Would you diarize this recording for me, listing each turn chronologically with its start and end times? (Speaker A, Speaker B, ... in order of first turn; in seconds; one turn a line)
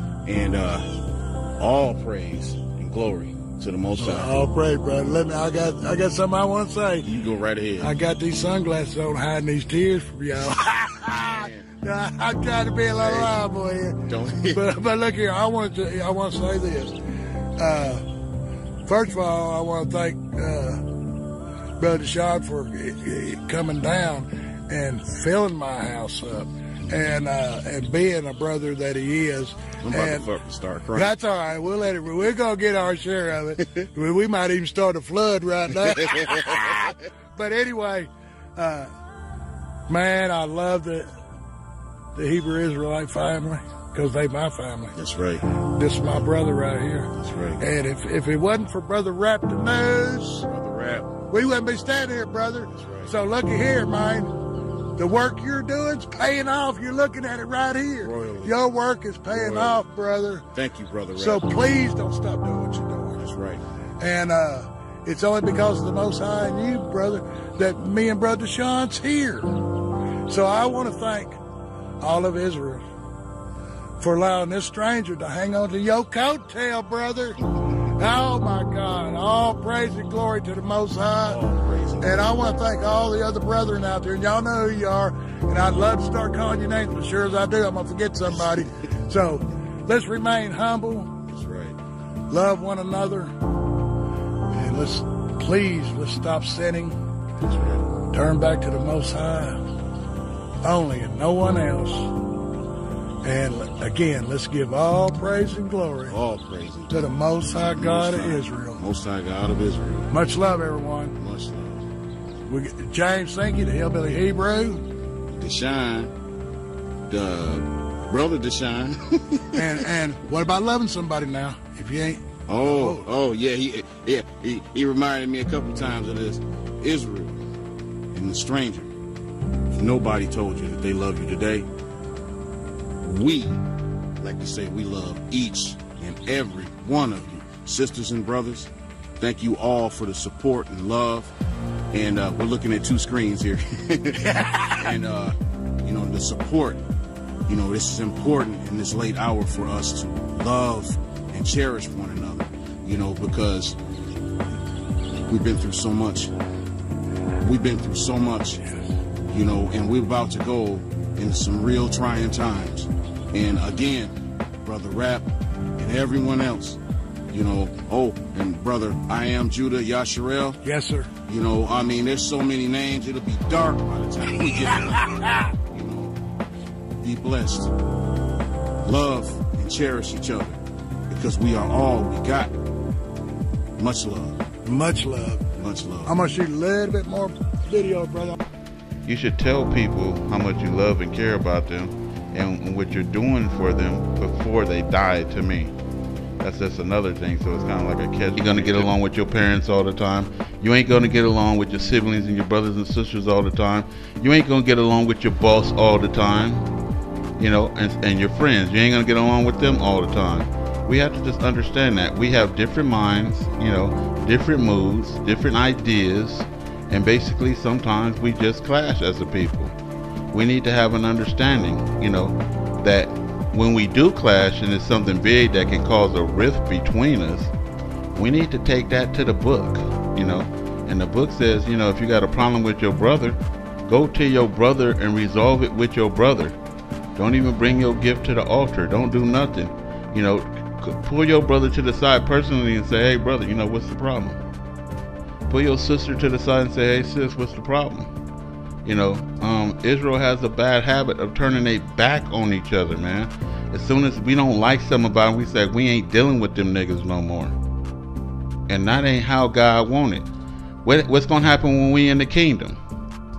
Speaker A: 0.2-0.8
Speaker A: 1.6-4.4
Speaker B: 3.9-7.1
Speaker A: 7.0-7.9
Speaker B: 7.8-16.9
Speaker A: 10.7-11.7
Speaker A: 13.0-13.3
Speaker A: 14.1-14.6
Speaker B: 17.6-18.1
Speaker B: 18.8-20.9
Speaker B: 21.8-30.3
Speaker A: 29.8-31.1
Speaker B: 30.9-38.9
Speaker A: 35.8-36.9
Speaker B: 39.9-41.1
Speaker B: 42.1-45.0
Speaker A: 45.0-45.4
Speaker B: 45.6-50.5
Speaker A: 47.1-47.6
Speaker A: 50.5-51.2
Speaker B: 51.3-54.3
Speaker A: 52.7-53.1
Speaker B: 55.0-60.5
Speaker A: 58.0-58.5
Speaker A: 59.3-59.8
Speaker A: 60.5-61.6
Speaker B: 61.1-63.2
Speaker A: 63.2-63.6
Speaker B: 64.0-69.5
Speaker B: 70.3-71.4
Speaker B: 72.0-72.8
Speaker B: 74.0-77.4
Speaker B: 78.0-81.4
Speaker A: 81.3-82.2
Speaker B: 82.0-91.1
Speaker A: 91.2-91.8
Speaker B: 92.3-93.3
Speaker B: 94.5-97.0
Speaker A: 97.4-97.9
Speaker B: 98.0-99.6
Speaker B: 100.6-102.1
Speaker B: 103.2-106.2
Speaker A: 106.1-110.1
Speaker B: 106.9-108.8
Speaker B: 110.1-111.2
Speaker A: 111.2-111.9
Speaker B: 112.5-114.8
Speaker A: 115.3-116.1
Speaker A: 117.1-119.8
Speaker B: 119.5-123.1
Speaker A: 122.5-127.4
Speaker A: 128.1-128.9
Speaker A: 129.7-131.7
Speaker A: 133.0-133.6
Speaker A: 134.2-141.3
Speaker A: 141.9-146.8
Speaker A: 147.5-153.8
Speaker A: 155.3-156.3
Speaker A: 157.4-158.6
Speaker A: 159.3-170.6
Speaker B: 170.6-171.1
Speaker A: 171.2-176.2
Speaker B: 175.0-175.4
Speaker A: 177.0-177.7
Speaker A: 178.8-182.5
Speaker A: 183.8-184.4
Speaker B: 184.6-185.5
Speaker A: 185.6-186.1
Speaker B: 186.0-188.4
Speaker C: 189.0-195.7
Speaker C: 196.4-206.7
Speaker A: 198.4-198.9
Speaker C: 207.4-219.7
Speaker C: 220.3-227.5
Speaker C: 228.1-236.6
Speaker C: 237.2-244.4
Speaker C: 245.5-248.1
Speaker C: 248.8-257.6
Speaker C: 258.7-260.3
Speaker C: 260.8-262.8